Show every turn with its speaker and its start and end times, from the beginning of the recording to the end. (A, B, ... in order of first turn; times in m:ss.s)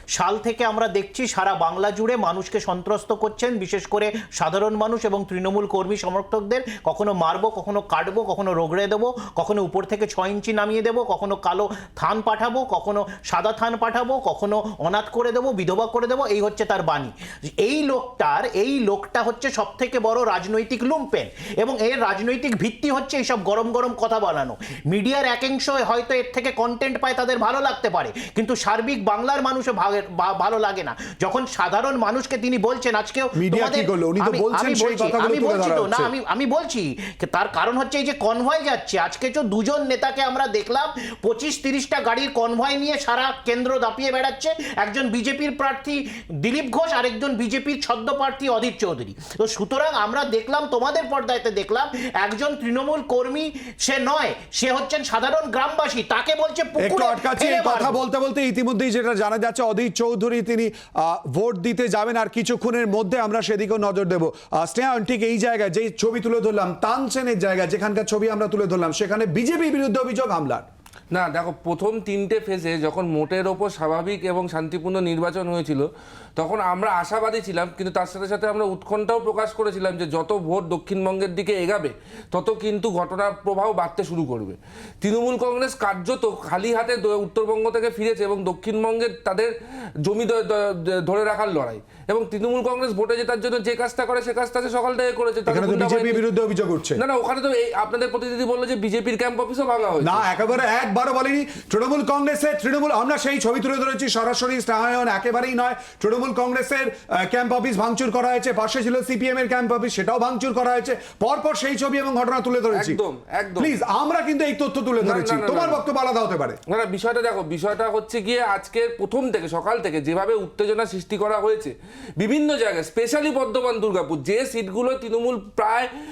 0:00.1-0:58.0 A
0:33.3-0:36.1 B
0:56.8-1:10.6 B
1:11.1-1:29.5 C
1:30.0-1:36.2 C
1:35.4-1:37.0 B
1:37.0-1:40.3 C
1:40.0-1:53.0 B
1:52.7-1:53.7 C
1:53.6-1:56.6 B
1:55.0-1:55.8 C
1:56.7-2:05.9 C